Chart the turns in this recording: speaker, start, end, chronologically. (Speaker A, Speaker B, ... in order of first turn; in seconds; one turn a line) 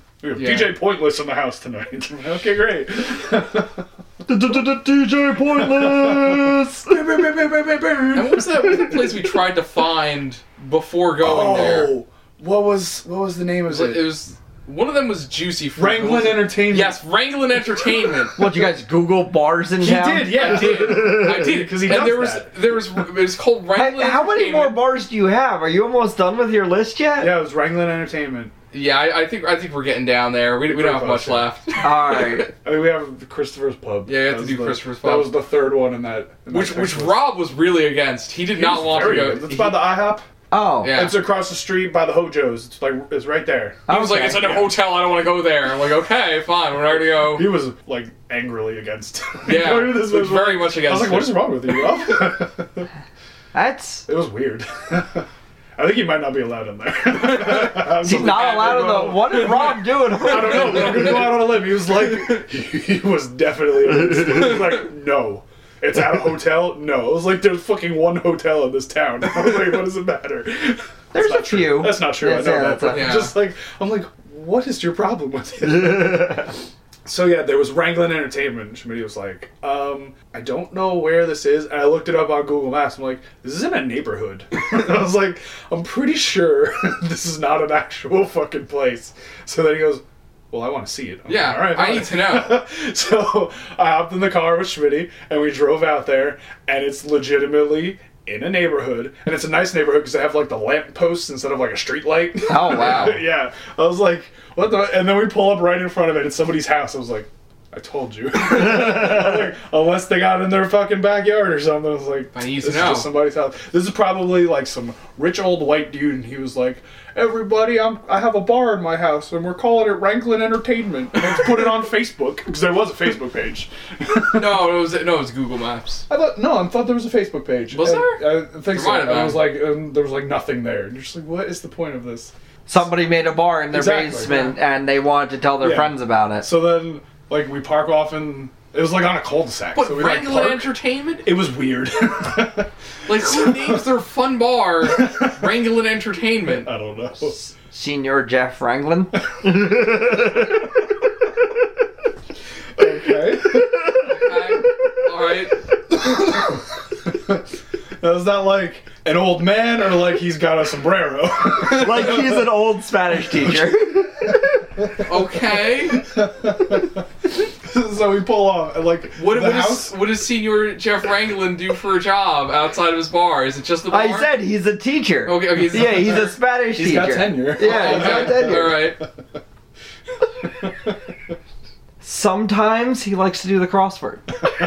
Speaker A: 0.2-3.9
Speaker B: 0.4-0.8
Speaker C: 4.3-6.9
Speaker A: 5.5-9.3
Speaker B: 8.1-11.9
Speaker A: 11.2-14.2
Speaker B: 13.7-18.4
Speaker A: 15.8-17.0
Speaker C: 18.4-21.6
Speaker A: 19.8-22.5
Speaker B: 20.3-24.8
Speaker C: 23.8-27.4
Speaker A: 27.2-28.5
Speaker B: 28.7-32.5
Speaker A: 30.6-31.5
Speaker C: 31.8-32.5
Speaker A: 32.6-37.2
Speaker B: 34.1-35.4
Speaker B: 36.5-39.9
Speaker A: 38.5-40.2
Speaker C: 40.5-41.0
Speaker B: 40.8-41.2
Speaker A: 40.9-44.6
Speaker C: 43.9-44.7
Speaker B: 43.9-47.5
Speaker A: 47.2-52.9
Speaker B: 49.4-52.2
Speaker C: 53.5-54.1
Speaker A: 54.1-76.5
Speaker B: 57.2-62.3
Speaker C: 58.0-61.2
Speaker C: 71.1-73.2
Speaker B: 72.9-73.3
Speaker C: 76.0-76.4
Speaker A: 77.0-124.7
Speaker B: 91.3-92.6
Speaker C: 102.5-103.2
Speaker B: 112.3-113.1
Speaker B: 124.2-126.1
Speaker A: 126.1-132.3
Speaker B: 127.7-129.5
Speaker C: 132.7-136.5
Speaker A: 133.7-134.6
Speaker A: 135.6-140.7
Speaker B: 139.8-141.3
Speaker A: 141.2-143.9
Speaker B: 143.1-146.7
Speaker A: 145.0-145.3
Speaker A: 146.5-147.4
Speaker C: 147.2-150.7
Speaker A: 152.8-154.3
Speaker B: 154.1-155.6
Speaker A: 155.9-157.4
Speaker A: 158.0-162.5
Speaker C: 161.6-164.7
Speaker A: 163.2-163.7
Speaker A: 164.8-165.1
Speaker B: 165.0-166.1
Speaker A: 165.7-170.0
Speaker B: 169.2-174.3
Speaker C: 173.9-178.9
Speaker B: 175.3-176.3
Speaker A: 176.8-179.1
Speaker B: 177.6-179.0
Speaker A: 180.4-180.9
Speaker C: 182.0-184.5